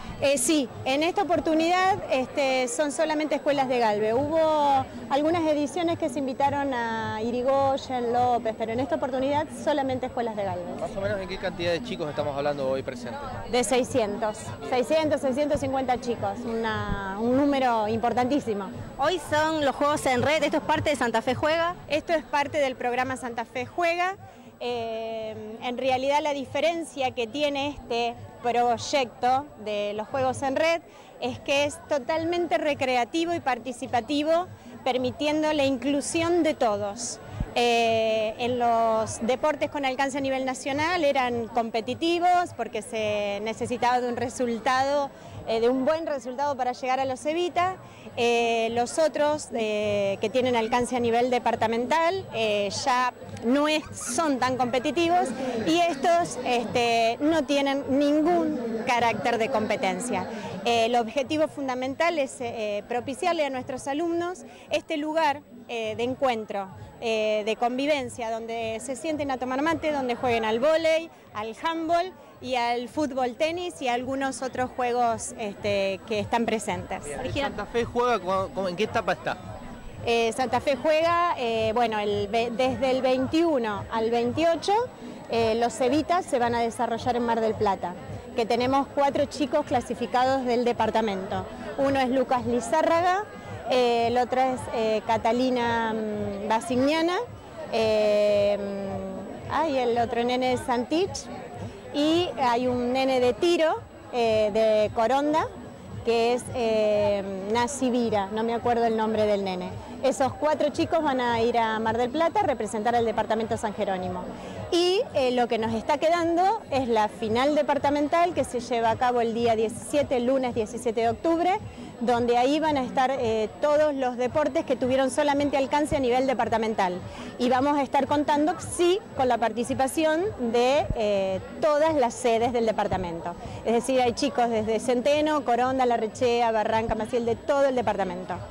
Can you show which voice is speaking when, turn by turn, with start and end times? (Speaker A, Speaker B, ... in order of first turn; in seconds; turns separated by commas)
Speaker A: 0.2-10.8, Speaker B: 10.8-13.4, Speaker A: 13.5-18.9, Speaker C: 18.9-21.8, Speaker A: 21.9-77.1, Speaker B: 77.1-79.4, Speaker C: 77.2-77.5, Speaker A: 80.0-101.3, Speaker A: 101.9-105.5, Speaker A: 106.0-138.4